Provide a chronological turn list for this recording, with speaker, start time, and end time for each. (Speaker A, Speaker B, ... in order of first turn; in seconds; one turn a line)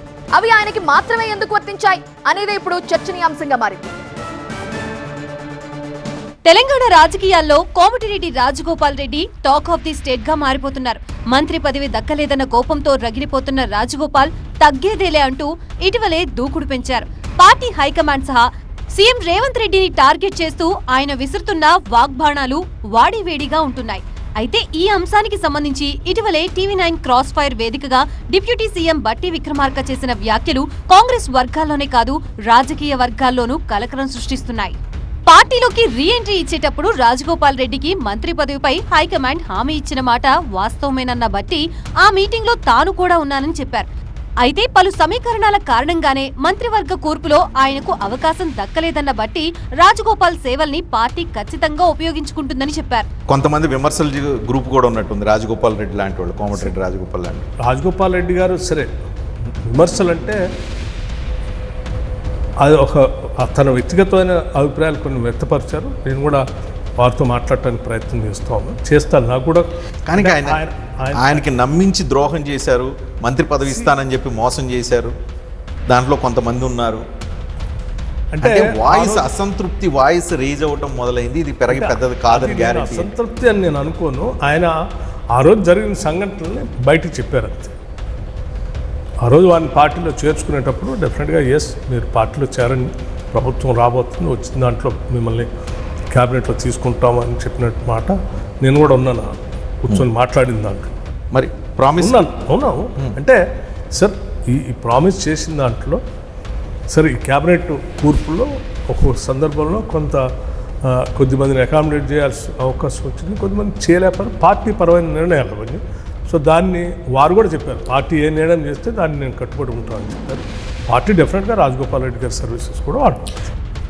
Speaker A: 0.3-3.9
Speaker B: 6.5-34.8
Speaker B: 35.3-43.9
Speaker B: 44.4-53.1
Speaker C: 53.3-57.5
Speaker D: 57.6-58.9
Speaker D: 59.7-60.4
Speaker D: 62.6-66.4
Speaker D: 67.0-69.7
Speaker C: 70.1-70.6
Speaker D: 70.2-71.5
Speaker C: 71.2-75.1
Speaker D: 73.7-73.9
Speaker C: 75.9-77.0
Speaker D: 78.3-79.3
Speaker C: 78.4-83.1
Speaker D: 81.7-84.7
Speaker D: 85.3-87.7
Speaker D: 89.2-95.5
Speaker D: 96.1-100.9
Speaker C: 101.3-102.2
Speaker D: 102.0-103.4
Speaker D: 103.9-106.0
Speaker D: 106.9-110.3
Speaker D: 110.8-123.3